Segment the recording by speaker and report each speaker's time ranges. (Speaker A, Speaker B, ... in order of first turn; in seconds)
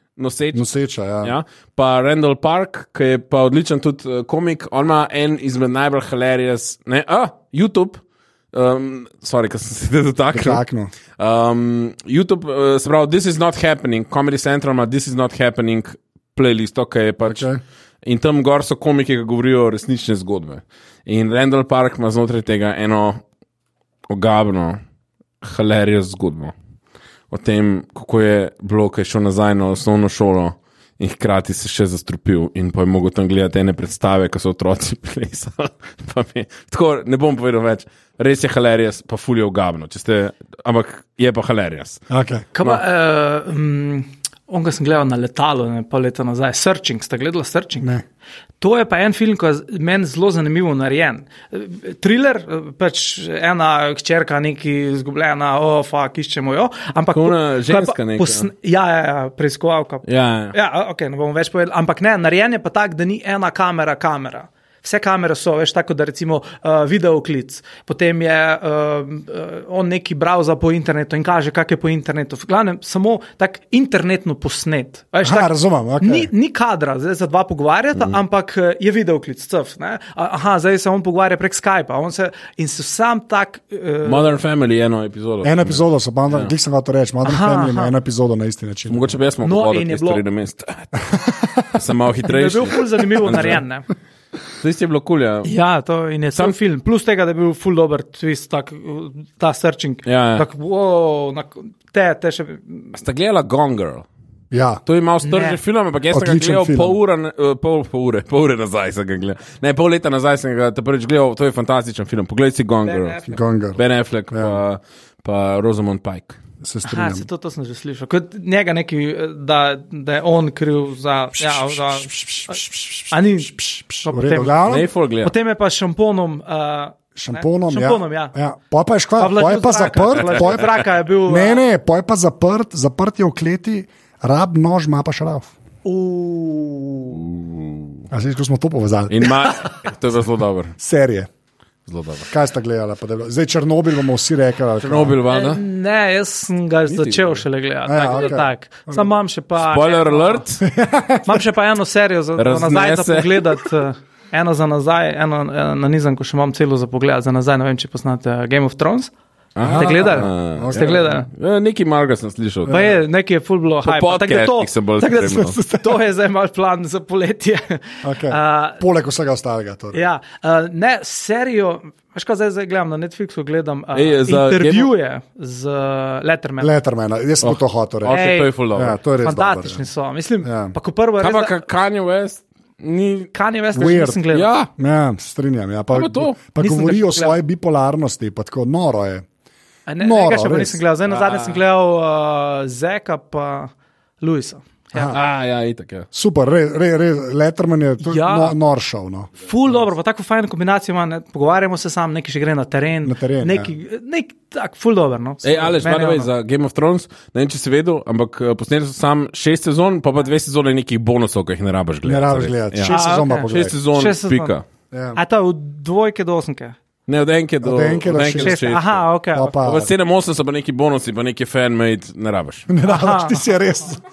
Speaker A: 0.2-0.7, 1.2-10.6, 11.2-17.5, 18.0-23.2, 24.1-24.8, 25.4-26.5, 27.3-42.0, 57.1-58.5, 60.0-60.5, 84.0-86.5, 88.9-90.9, 91.7-93.6, 94.6-95.5, 100.0-100.4, 102.9-104.0, 104.8-113.2, 113.8-116.4, 124.6-125.3, 130.2-130.8, 137.1-138.1, 139.1-140.7, 141.8-142.3, 144.8-145.6, 146.9-147.4, 149.6-150.6, 152.4-153.6, 159.6-162.9, 163.8-165.6, 173.9-174.9, 177.4-179.0, 181.2-183.3, 184.3-184.7, 185.9-186.4, 191.1-191.6, 195.1-196.1, 205.4-214.6, 217.1-222.7
Speaker B: 0.5-1.3, 10.3-10.9, 17.2-17.6, 42.1-42.5, 75.2-76.3, 85.4-89.1, 91.0-91.8, 104.5-104.8, 106.1-107.0, 113.3-113.8, 114.3-114.6, 116.6-117.3, 121.4-124.9, 127.2-135.5, 138.1-139.7, 140.8-141.3, 142.3-145.2, 147.9-149.1, 150.6-151.4, 159.6-160.9, 162.7-162.9, 168.0-170.0, 176.6-178.2, 178.7-179.8, 180.4-180.7, 183.7-184.2, 184.8-189.2, 190.0-190.8, 194.9-195.2, 196.1-199.3, 203.0-203.7, 212.0-213.7, 214.9-215.2, 217.6-218.6, 219.3-219.9, 222.7-224.0
Speaker C: 42.5-47.9, 48.6-84.4, 87.2-87.9, 89.4-90.2, 92.3-93.9, 95.4-102.9, 105.2-105.6, 112.8-113.4, 116.8-124.6, 125.2-128.3, 129.2-131.6, 135.8-137.2, 145.3-150.4, 151.2-159.1, 159.7-161.3, 162.7-168.8, 169.9-176.7, 178.1-178.5, 179.2-181.6, 183.3-184.5, 186.6-187.4, 189.9-195.2, 198.0-198.6, 199.4-206.3, 212.8-214.6, 215.1-216.8, 218.3-219.5, 222.8-223.4